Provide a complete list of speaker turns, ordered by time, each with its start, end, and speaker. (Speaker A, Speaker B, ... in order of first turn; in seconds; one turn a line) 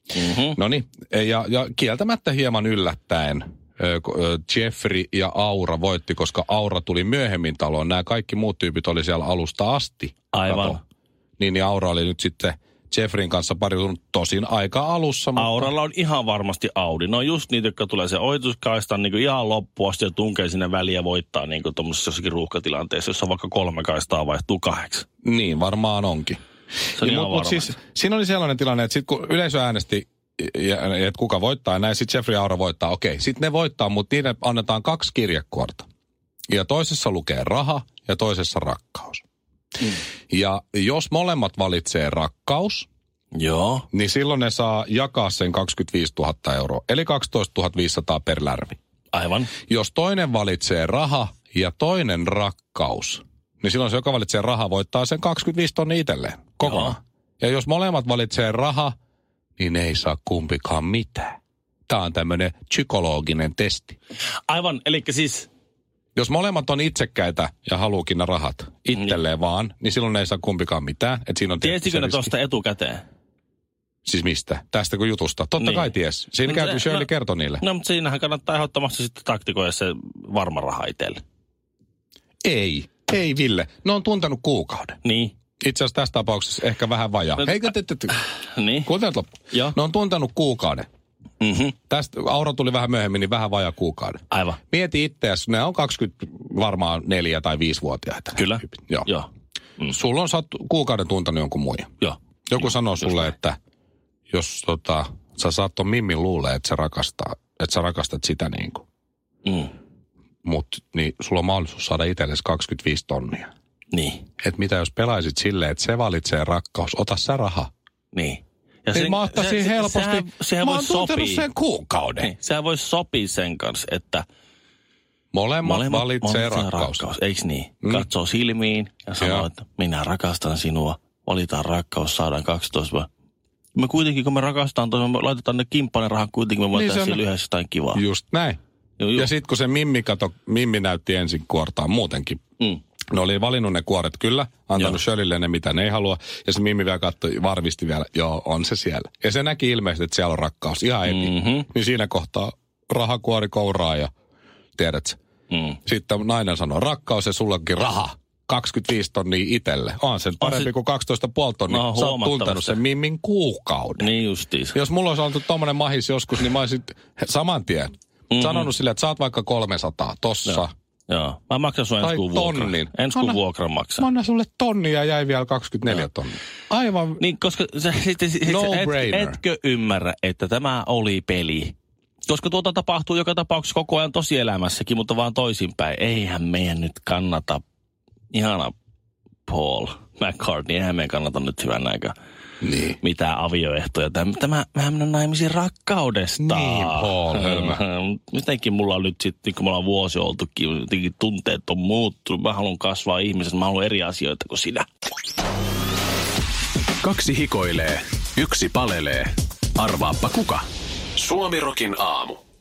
Speaker A: 0.1-0.6
Speaker B: 0.6-10.8
Speaker A: 10.3-10.8
Speaker B: 11.4-15.7
Speaker A: 15.3-25.1
Speaker B: 25.2-26.4
Speaker A: 26.9-27.7
Speaker B: 26.9-35.9
Speaker B: 36.5-39.2
Speaker B: 39.9-42.9
Speaker A: 43.3-43.9
Speaker B: 43.9-48.8
Speaker A: 49.1-49.5
Speaker B: 49.7-58.9
Speaker A: 56.6-57.0
Speaker B: 59.6-64.0
Speaker A: 64.5-65.5
Speaker B: 66.1-72.3
Speaker A: 71.6-73.0
Speaker B: 74.0-77.6
Speaker A: 75.6-77.1
Speaker A: 77.6-81.2
Speaker B: 82.4-85.0
Speaker A: 85.0-85.3
Speaker B: 85.6-88.2
Speaker A: 88.2-88.9
Speaker B: 88.8-90.9
Speaker A: 89.5-89.8
Speaker A: 91.4-91.8
Speaker B: 91.9-99.1
Speaker A: 94.3-94.6
Speaker A: 98.3-99.3
Speaker B: 99.9-101.9
Speaker A: 102.0-103.3
Speaker B: 102.5-103.6
Speaker B: 104.3-108.8
Speaker A: 109.4-109.7
Speaker B: 110.4-113.5
Speaker A: 113.9-114.2
Speaker B: 114.4-117.7
Speaker A: 118.1-121.4
Speaker B: 118.9-122.3
Speaker A: 122.2-124.2
Speaker B: 125.3-127.0
Speaker A: 125.6-133.1
Speaker B: 129.2-129.4
Speaker A: 133.7-138.0
Speaker B: 136.7-137.2
Speaker B: 137.9-138.6
Speaker A: 139.0-139.3
Speaker B: 139.1-142.4
Speaker B: 143.1-154.1
Speaker A: 151.1-151.7
Speaker B: 154.8-155.2
Speaker A: 155.5-155.8
Speaker B: 155.8-164.1
Speaker A: 160.4-160.7
Speaker A: 161.7-162.8
Speaker A: 164.0-164.8
Speaker B: 164.7-170.7
Speaker A: 168.3-168.7
Speaker A: 170.4-174.1
Speaker B: 172.0-173.4
Speaker B: 174.0-177.2
Speaker A: 177.2-181.7
Speaker B: 178.4-179.4
Speaker A: 182.3-187.6
Speaker A: 188.3-188.7
Speaker A: 189.4-192.1
Speaker B: 192.6-193.0
Speaker A: 193.0-204.9
Speaker B: 196.4-197.8
Speaker C: 207.0-210.6
Speaker C: 211.2-212.4